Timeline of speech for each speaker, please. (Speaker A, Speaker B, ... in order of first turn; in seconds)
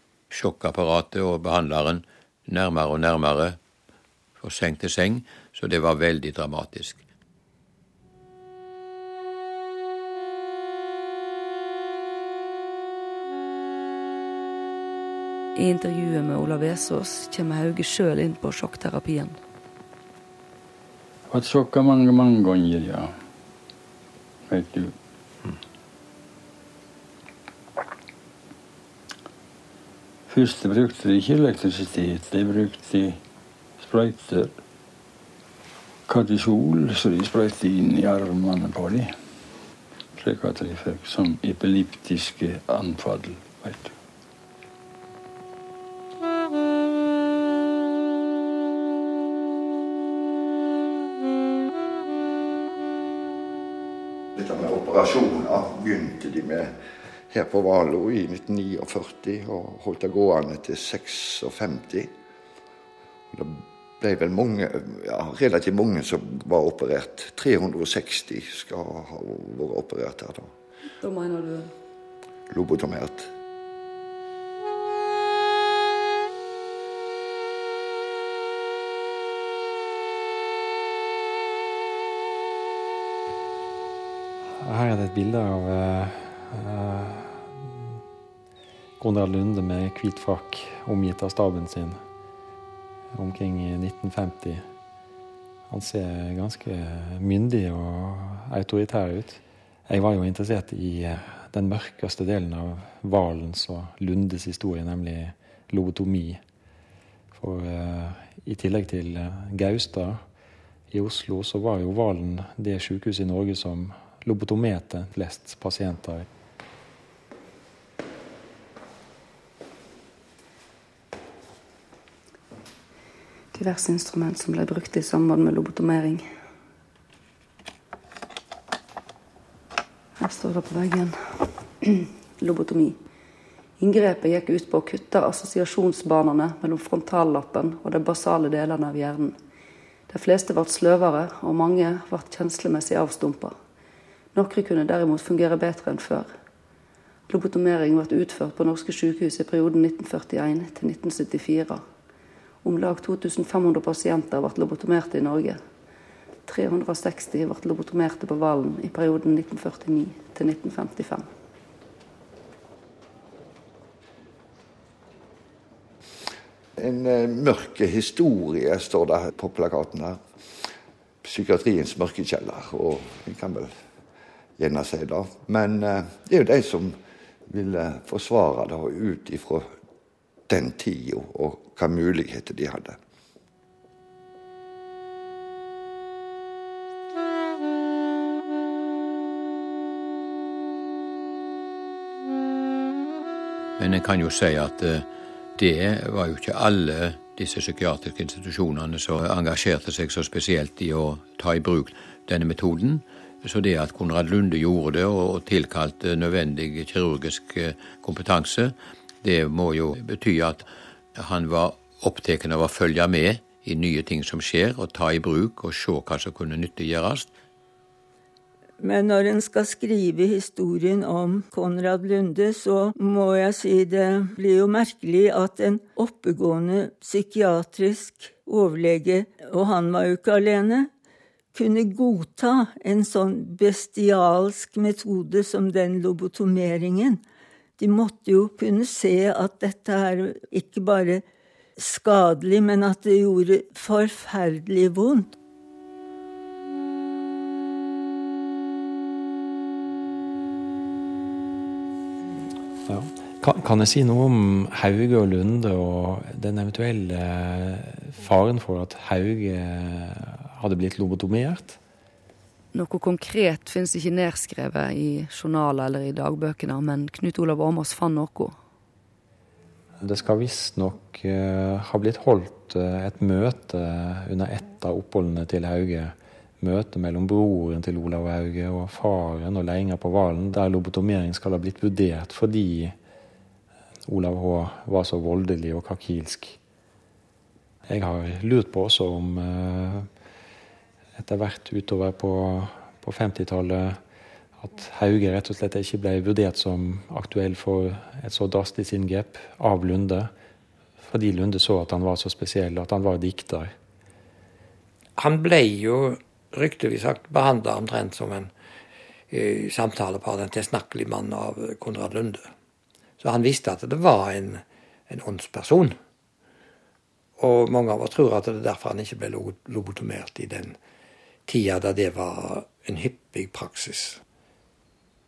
Speaker A: 0.3-3.6, 4.4-7.0, 193.8-195.1, 195.6-217.3
Speaker B: 15.6-19.4, 71.0-71.7, 123.5-126.2, 130.2-131.1, 131.8-133.0, 133.8-139.3, 140.1-143.5, 144.3-146.3, 147.3-151.8, 152.6-155.6, 156.5-161.3, 262.7-268.6
Speaker C: 21.3-23.1, 24.5-24.9, 30.3-33.2, 33.8-34.5, 36.1-39.1, 40.1-43.9
Speaker D: 54.3-56.7, 57.3-62.1, 63.3-70.5, 72.5-73.3, 166.8-170.2, 171.2-173.7, 174.6-177.0, 177.5-179.8, 180.5-183.0
Speaker E: 84.4-87.9, 89.0-92.0, 93.1-94.6, 95.7-106.4, 107.3-110.2, 110.9-116.3, 252.8-261.8, 270.0-282.9, 284.1-286.6, 287.9-290.1, 291.1-294.0, 294.6-300.3, 301.0-303.7
Speaker F: 218.8-230.9, 231.5-237.2, 237.8-241.2, 241.8-245.4
Speaker G: 305.2-308.5, 309.3-312.4, 313.2-315.9, 317.4-320.8, 321.5-324.2